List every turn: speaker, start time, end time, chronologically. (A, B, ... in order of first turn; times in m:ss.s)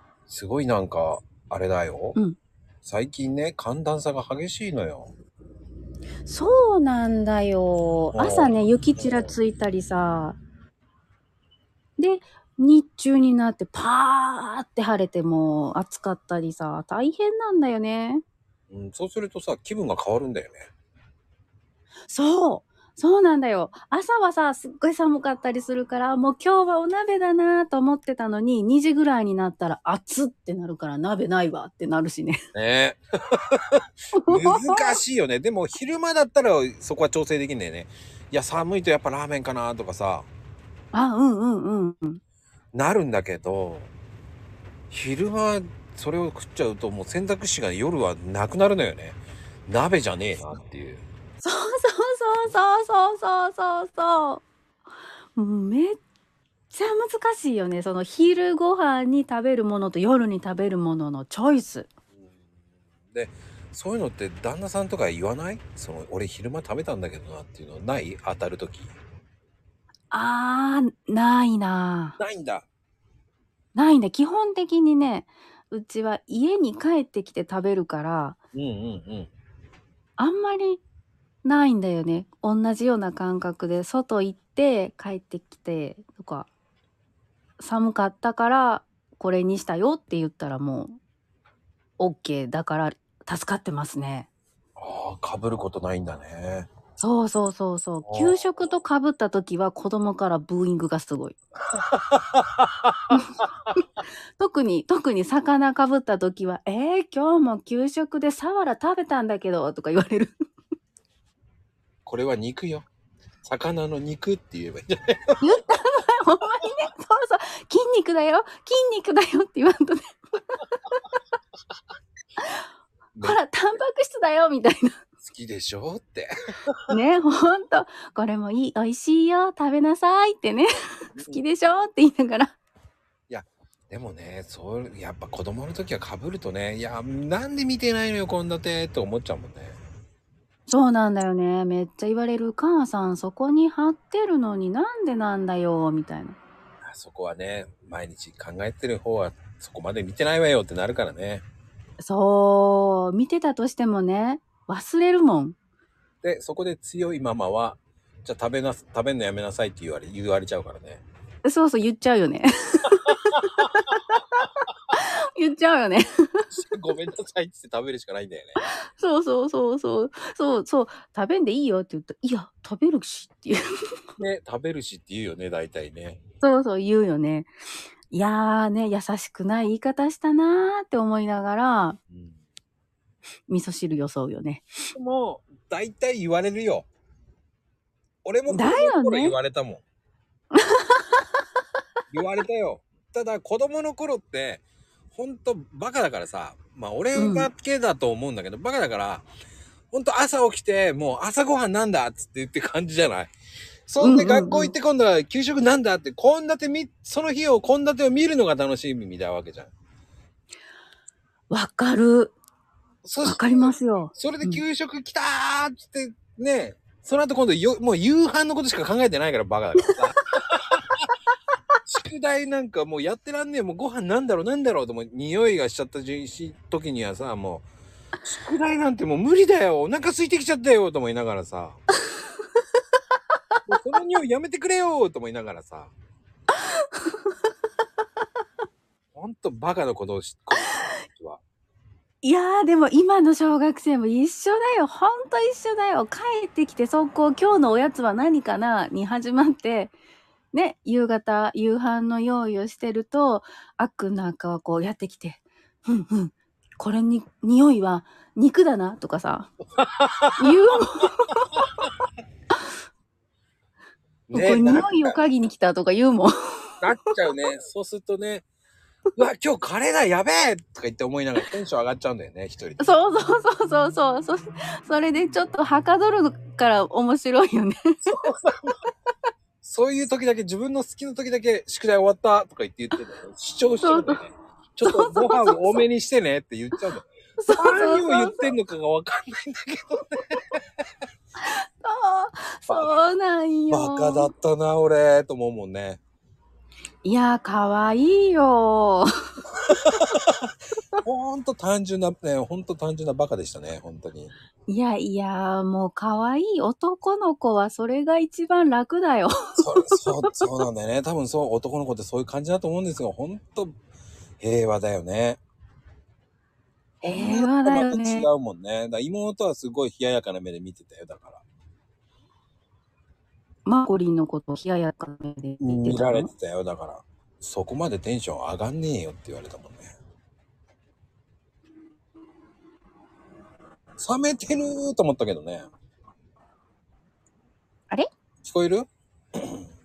0:00.3-0:02.2 A
0:02.8-0:05.1 A
0:06.2-0:10.4 B
0:08.1-0:09.3 A
0:12.0-0:18.2 B
0:18.7-0:20.7 A
0:22.1-0:32.4 B
0:32.5-0:40.3 A
0:34.1-0:35.0 B
0:40.9-0:42.2 B
0:42.7-0:43.9 A
0:44.9-0:51.0 A
0:51.4-0:54.4 B
0:55.4-0:56.0 B
0:56.7-1:01.9 B
1:03.1-1:08.9 A
1:10.1-1:12.2 B
1:12.2-1:12.7 A
1:13.7-1:18.4 B
1:18.5-1:19.3 A
1:20.2-1:20.8 B
1:21.4-1:26.5 B
1:27.6-1:31.0 B
1:32.0-1:34.3 B
1:34.8-1:36.7 A
1:37.0-1:41.4 B
1:38.0-1:38.4 A
1:41.8-1:42.9 A
1:43.1-1:43.4 B
1:44.4-1:50.3 B
1:52.0-1:52.9 A
1:53.4-1:55.4 A
1:55.4-2:01.0 B
2:03.2-2:05.0 B
2:05.2-2:06.8 A
2:06.9-2:12.6 B
2:11.1-2:11.4 A
2:13.3-2:19.8 A
2:20.7-2:26.4 B
2:26.8-2:31.4 A
2:32.0-2:35.6 B
2:36.2-2:41.0 A
2:41.4-2:46.4 B
2:46.5-2:48.6 A
2:48.6-2:54.0 B
2:54.2-2:56.2 A
2:56.4-2:57.5 B
2:58.1-3:02.0 B
3:02.1-3:02.4 A
3:03.5-3:04.7 B
3:04.9-3:06.9 A
3:08.2-3:09.8 A
3:08.5-3:09.4 B
3:10.5-3:11.2 B
3:12.1-3:19.2 A
3:17.2-3:17.5 B
3:19.9-3:23.3 A
3:23.9-3:29.7 A
3:24.0-3:24.7 B
3:31.5-3:32.4 B
3:33.0-3:40.8 A
3:33.2-3:34.6 B
3:41.8-3:47.6 A
3:48.2-3:51.8 A
3:53.7-3:55.9 A
3:59.1-4:01.4 A
4:02.2-4:09.9 B
4:10.5-4:19.5 B
4:19.8-4:20.6 A
4:20.4-4:21.5 B
4:24.3-4:25.3 A
4:24.3-4:26.7 B
4:26.8-4:28.4 A
4:29.2-4:32.9 A
4:32.8-4:38.2 B
4:38.1-4:38.7 A
4:39.6-4:50.4 A
4:43.8-4:44.2 B
4:44.8-4:45.8 B
4:47.4-4:48.5 B
4:51.4-4:54.3 B
4:52.7-4:53.0 A
4:53.7-4:56.0 A
4:57.0-4:59.1 B
4:59.7-5:00.4 A
5:01.0-5:04.3 A
5:04.7-5:10.4 B
5:09.6-5:13.8 A
5:14.4-5:15.4 A
5:17.0-5:18.3 B
5:17.0-5:21.4 A
5:23.6-5:26.3 B
5:25.6-5:29.9 A
5:34.0-5:35.7 A
5:38.4-5:39.6 A